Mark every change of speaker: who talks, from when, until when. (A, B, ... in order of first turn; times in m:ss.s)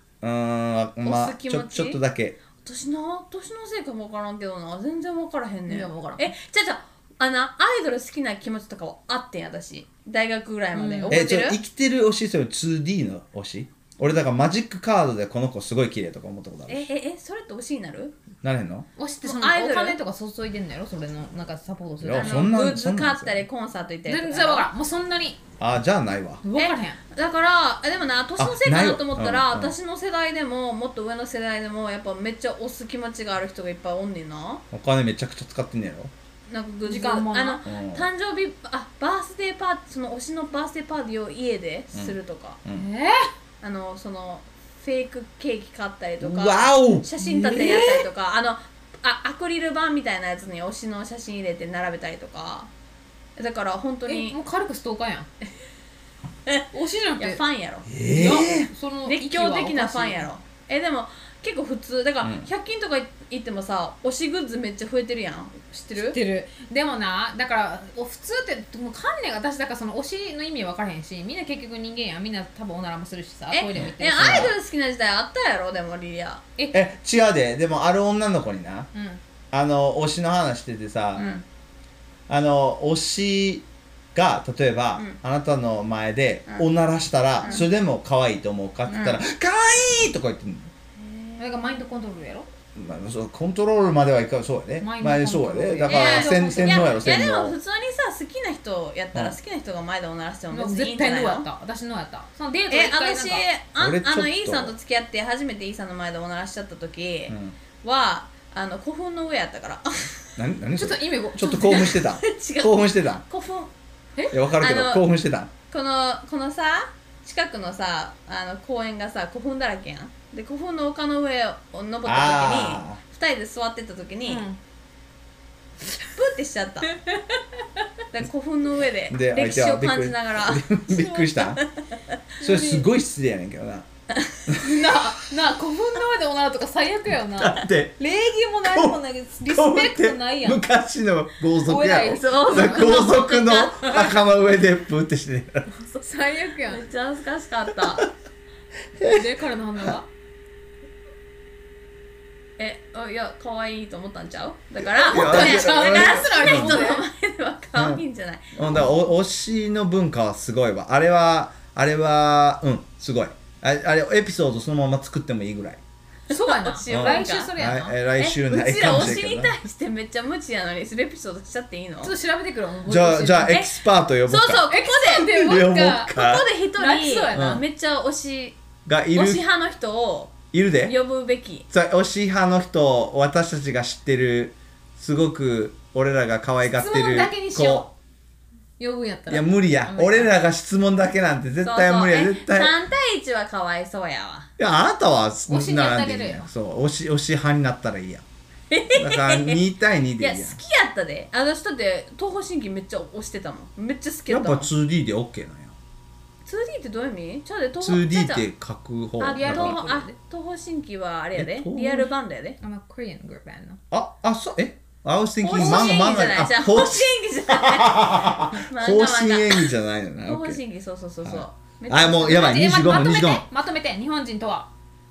0:00.2-0:02.4 A
0:01.0-0:02.0 B
0:02.6-0:11.6 B
0:05.7-0:06.3 C
0:10.8-0:11.2 C
0:11.1-0:16.9 A
0:16.7-0:18.2 B
0:18.4-0:18.9 A
0:19.0-0:22.5 C
0:19.2-0:20.0 B
0:22.0-0:23.4 A
0:22.2-0:24.7 B
0:24.1-0:25.4 C
0:25.6-0:26.4 A
0:26.4-0:27.0 C
0:26.6-0:34.6 B
0:28.4-0:29.7 A
0:34.7-0:36.1 A
0:36.5-0:42.6 B
0:36.8-0:37.6 C
0:37.7-0:38.1 A
0:41.9-0:42.9 A
0:42.7-0:43.3 C
0:43.6-0:52.7 B
0:46.2-0:48.1 A
0:53.4-0:54.4 B
0:54.1-0:55.3 C
0:56.7-0:57.4 C
0:57.2-0:58.3 B
0:57.9-0:58.7 A
0:58.0-1:00.3 C
0:59.0-1:06.2 B
1:02.2-1:02.5 A
1:06.0-1:14.5 C
1:13.5-1:16.4 B
1:13.7-1:14.5 A
1:16.6-1:16.8 C
1:16.7-1:18.9 A
1:18.9-1:19.2 C
1:19.5-1:21.3 A
1:21.2-1:21.4 B
1:22.3-1:30.7 A
1:28.9-1:29.2 B
1:31.0-1:31.4 B
1:31.4-1:32.5 C
1:32.8-1:37.6 A
1:34.8-1:37.0 C
1:35.9-1:41.5 B
1:40.5-1:43.4 C
1:42.7-1:50.2 B
1:43.8-1:44.8 A
1:47.3-1:47.6 A
1:50.4-1:53.2 A
1:50.8-1:52.0 C
1:51.7-1:53.7 B
1:54.3-1:55.5 A
1:54.6-1:55.1 B
1:55.7-2:04.5 B
2:02.1-2:03.0 A
2:04.3-2:04.6 C
2:06.0-2:07.0 B
2:08.1-2:12.0 B
2:09.1-2:11.6 A
2:12.4-2:12.9 C
2:12.4-2:13.9 A
2:14.5-2:14.8 A
2:14.6-2:20.6 C
2:17.2-2:18.0 A
2:18.6-2:25.7 A
2:21.7-2:23.1 C
2:22.1-2:24.2 B
2:26.0-2:26.8 C
2:26.7-2:28.1 B
2:27.8-2:28.1 A
2:29.0-2:29.9 A
2:29.0-2:30.1 C
2:32.6-2:38.6 B
2:34.8-2:36.9 A
2:35.1-2:37.1 C
2:37.8-2:38.0 A
2:38.6-2:45.8 A
2:46.3-2:48.0 C
2:46.3-2:47.5 B
2:46.9-2:49.5 A
2:48.2-2:52.1 B
2:48.8-2:49.1 C
2:52.0-2:53.6 C
2:52.9-2:56.4 A
2:54.3-2:58.6 B
2:54.3-2:56.1 C
2:56.8-2:57.6 C
2:57.3-2:57.6 A
2:58.8-2:59.4 A
2:59.2-3:01.7 B
3:00.5-3:00.9 A
3:01.7-3:07.9 A
3:06.7-3:07.9 C
3:08.8-3:10.3 C
3:09.3-3:12.7 A
3:11.6-3:14.5 B
3:14.6-3:18.2 A
3:15.5-3:16.5 C
3:18.7-3:19.6 B
3:18.9-3:20.6 A
3:20.2-3:24.7 B
3:24.3-3:25.8 A
3:26.5-3:28.5 B
3:27.8-3:30.0 A
3:29.2-3:32.6 B
3:29.2-3:30.2 C
3:31.4-3:32.1 A
3:32.6-3:33.8 C
3:33.9-3:40.6 A
3:35.4-3:39.7 B
3:40.2-3:42.6 B
3:41.2-3:43.4 A
3:42.2-3:44.7 C